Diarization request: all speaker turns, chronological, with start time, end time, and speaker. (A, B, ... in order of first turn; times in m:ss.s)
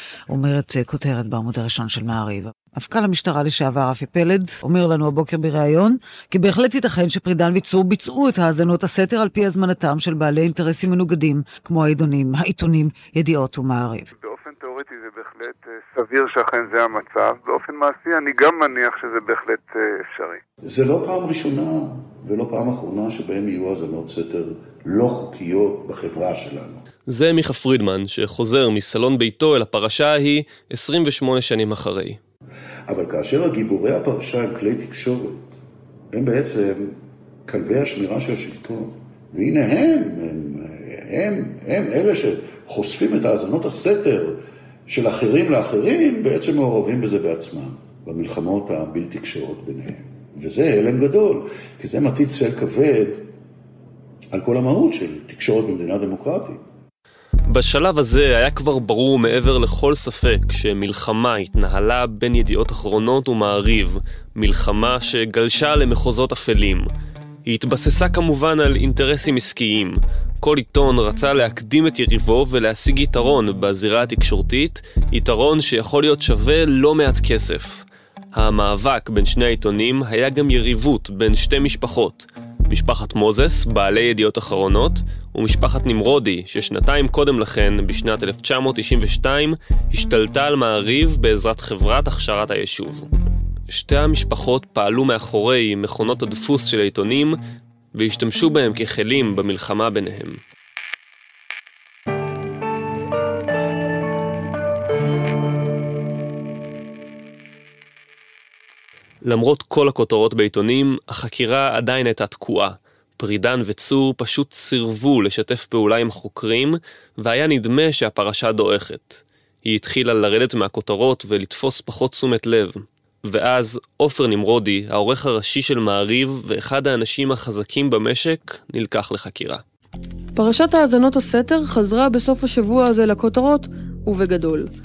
0:00.3-0:14.1 A
0:14.2-0:20.4 B
0:20.6-0:26.8 C
0:27.1-0:32.2 D
0:32.9-0:35.6 C
0:36.1-0:53.3 C
0:54.3-0:56.6 C
0:57.5-1:06.9 D
1:07.5-1:33.1 D
1:33.7-1:37.4 D
1:38.0-1:40.4 D
1:49.2-2:09.6 D
2:10.4-2:14.7 E